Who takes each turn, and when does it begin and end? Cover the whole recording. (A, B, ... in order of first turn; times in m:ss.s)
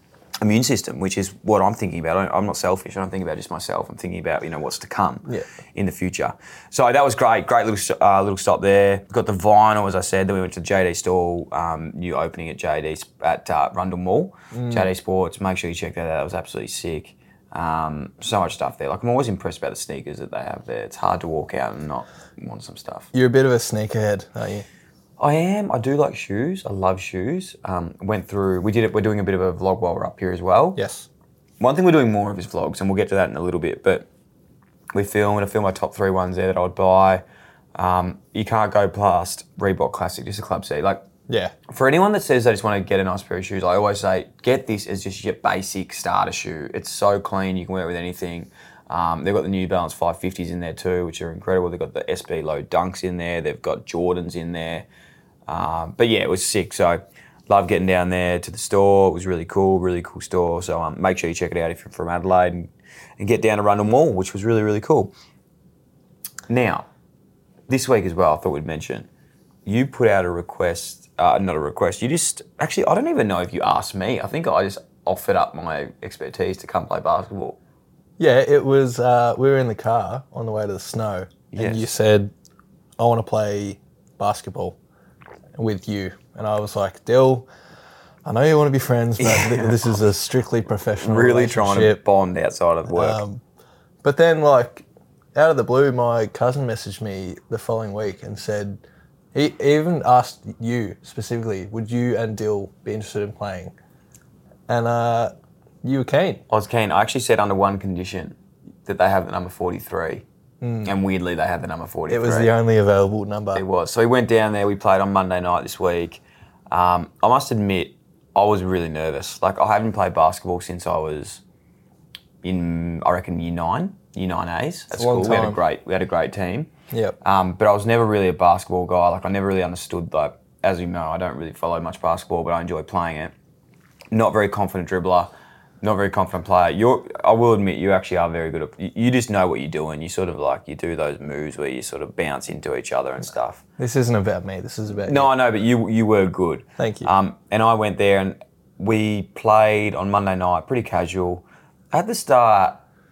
0:00.4-0:23.1 A
0:14.5-0:14.9 B
0:23.1-0:24.6 B
0:25.2-0:30.8 A
0:30.8-0:31.1 B
0:31.6-0:34.1 A
0:34.9-0:37.2 A
0:37.8-0:41.1 A
0:41.3-0:41.5 B
0:41.7-0:54.9 A
0:55.5-1:05.1 A
1:06.5-1:06.9 A
1:07.7-1:09.1 A
1:09.6-1:17.6 A
1:18.2-1:22.3 B
1:21.5-1:21.9 A
1:23.0-1:24.8 B
1:25.6-1:27.5 B
1:28.2-1:32.0 B
1:29.2-1:29.9 A
1:31.0-1:33.2 A
1:32.9-1:33.4 B
1:34.0-1:38.8 B
1:39.3-1:43.7 B
1:44.7-1:46.4 B
1:46.5-1:50.2 A
1:50.6-1:50.9 B
1:50.8-1:52.5 A
1:52.1-1:53.6 B
1:53.5-2:01.4 A
2:02.4-2:06.7 A
2:04.9-2:05.6 B
2:06.9-2:07.2 B
2:07.2-2:13.3 A
2:14.1-2:15.3 A
2:15.8-2:23.6 A
2:23.8-2:25.3 B
2:25.0-2:32.8 A
2:26.8-2:27.1 B